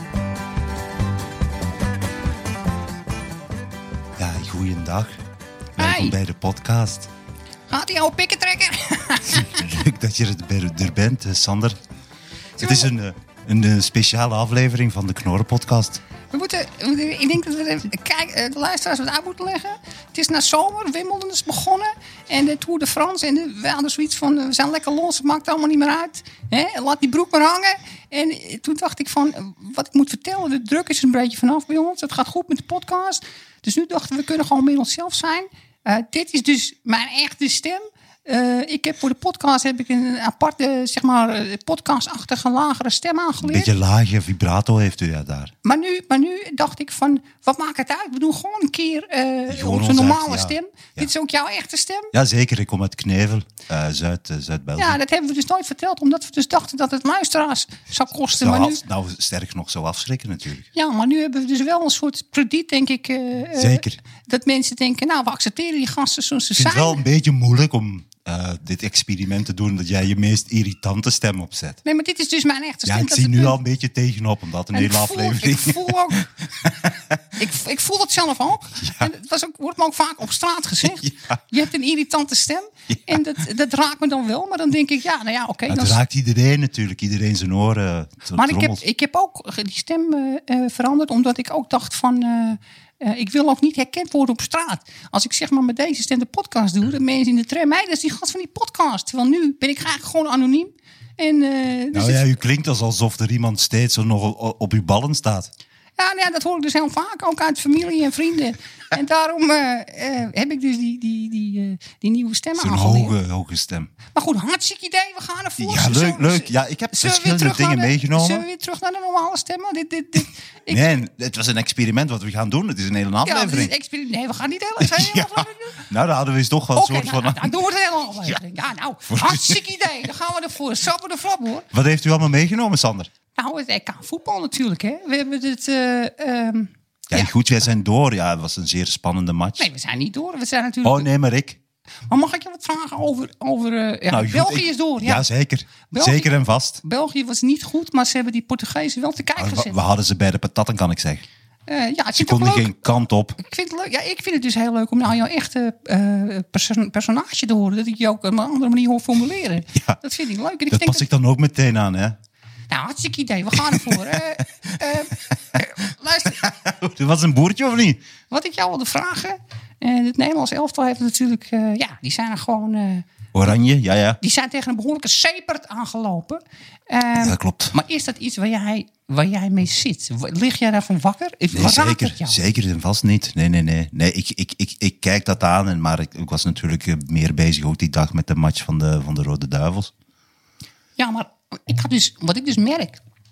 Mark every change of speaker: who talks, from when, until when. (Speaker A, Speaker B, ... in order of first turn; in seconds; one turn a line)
Speaker A: 4.2-5.2
Speaker A: 5.8-7.1
Speaker B: 5.8-6.2
Speaker B: 7.7-9.7
Speaker A: 9.4-11.8
Speaker A: 12.6-16.0
Speaker B: 12.6-12.9
Speaker B: 16.3-43.7
Speaker A: 43.4-45.5
Speaker B: 45.6-52.1
Speaker A: 49.5-51.1
Speaker A: 52.1-55.0
Speaker B: 54.8-58.8
Speaker A: 58.3-60.7
Speaker B: 60.8-67.0
Speaker A: 63.5-64.0
Speaker A: 66.6-71.8
Speaker B: 71.8-73.6
Speaker A: 72.9-77.2
Speaker B: 74.7-76.3
Speaker B: 77.4-86.0
Speaker A: 78.8-79.1
Speaker A: 80.8-81.4
Speaker A: 82.9-83.2
Speaker A: 85.7-88.8
Speaker B: 88.3-102.3
Speaker A: 101.9-105.5
Speaker B: 106.0-113.2
Speaker A: 112.6-113.9
Speaker B: 114.1-120.8
Speaker A: 115.6-118.5
Speaker A: 120.7-123.7
Speaker B: 123.2-125.8
Speaker A: 124.8-127.6
Speaker B: 126.7-131.7
Speaker A: 129.1-129.8
Speaker A: 131.7-133.1
Speaker B: 133.3-137.3
Speaker A: 137.1-139.7
Speaker B: 139.6-141.1
Speaker A: 140.8-141.6
Speaker B: 142.1-145.3
Speaker A: 144.1-146.8
Speaker B: 145.9-149.8
Speaker A: 149.4-151.3
Speaker B: 151.7-152.7
Speaker A: 152.2-153.4
Speaker B: 153.4-161.1
Speaker A: 159.7-160.0
Speaker A: 160.7-162.2
Speaker B: 162.7-166.4
Speaker A: 163.6-164.2
Speaker A: 166.4-168.0
Speaker B: 168.3-173.1
Speaker A: 173.3-174.2
Speaker B: 174.2-182.4
Speaker A: 177.2-177.8
Speaker A: 181.5-189.9
Speaker B: 191.0-193.0